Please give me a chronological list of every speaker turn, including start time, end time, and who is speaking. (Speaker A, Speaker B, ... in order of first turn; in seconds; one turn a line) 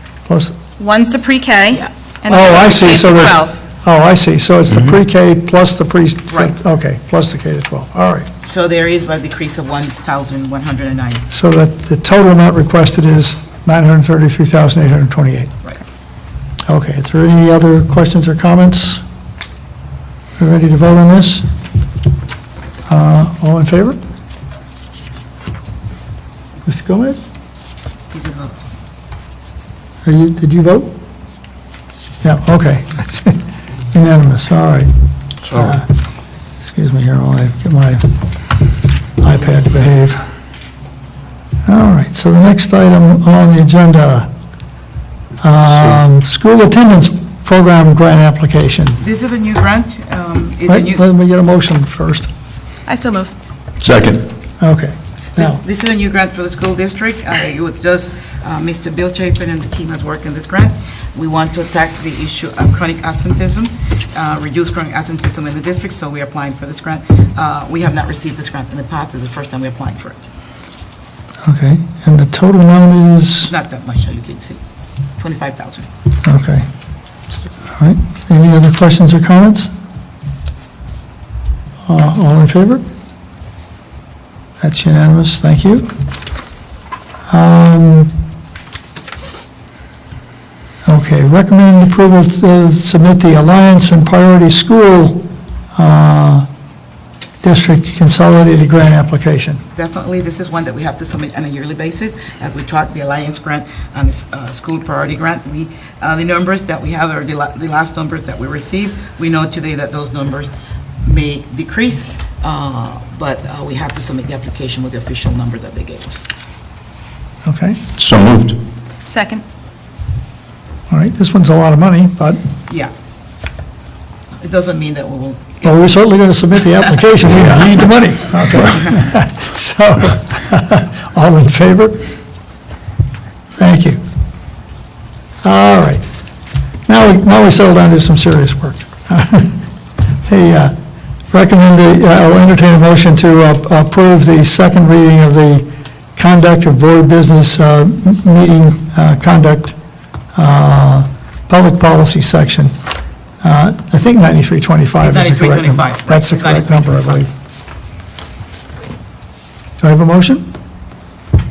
Speaker A: 0.2-0.6
Speaker B: 0.8-3.5
Speaker A: 2.3-8.3
Speaker C: 4.7-5.0
Speaker D: 8.4-11.2
Speaker A: 11.3-15.5
Speaker A: 16.7-19.0
Speaker A: 20.4-21.4
Speaker A: 22.9-24.0
Speaker A: 26.6-27.3
Speaker D: 28.1-28.6
Speaker A: 30.0-30.9
Speaker A: 32.2-33.4
Speaker A: 33.9-34.9
Speaker A: 35.5-35.8
Speaker A: 36.6-38.1
Speaker A: 39.2-40.2
Speaker A: 41.6-44.3
Speaker A: 45.4-49.0
Speaker D: 49.0-51.0
Speaker A: 50.7-52.3
Speaker B: 52.9-53.3
Speaker C: 53.8-54.3
Speaker A: 54.6-55.6
Speaker D: 55.4-70.3
Speaker A: 71.5-73.5
Speaker D: 73.4-74.6
Speaker D: 75.2-75.9
Speaker A: 76.2-76.7
Speaker A: 77.8-79.7
Speaker A: 81.8-82.8
Speaker A: 84.6-85.9
Speaker A: 87.3-88.1
Speaker A: 90.8-96.5
Speaker A: 97.4-99.6
Speaker D: 99.7-110.5
Speaker D: 111.0-116.3
Speaker A: 117.4-117.8
Speaker C: 118.0-118.6
Speaker B: 119.1-119.4
Speaker A: 120.9-122.4
Speaker D: 124.4-125.7
Speaker A: 125.6-132.0
Speaker C: 127.4-127.9
Speaker A: 133.6-134.0
Speaker A: 135.4-136.0
Speaker A: 136.9-139.6
Speaker A: 140.2-140.7
Speaker A: 141.3-149.8
Speaker A: 150.3-152.7
Speaker A: 153.4-157.3
Speaker D: 155.0-157.2
Speaker A: 159.8-160.4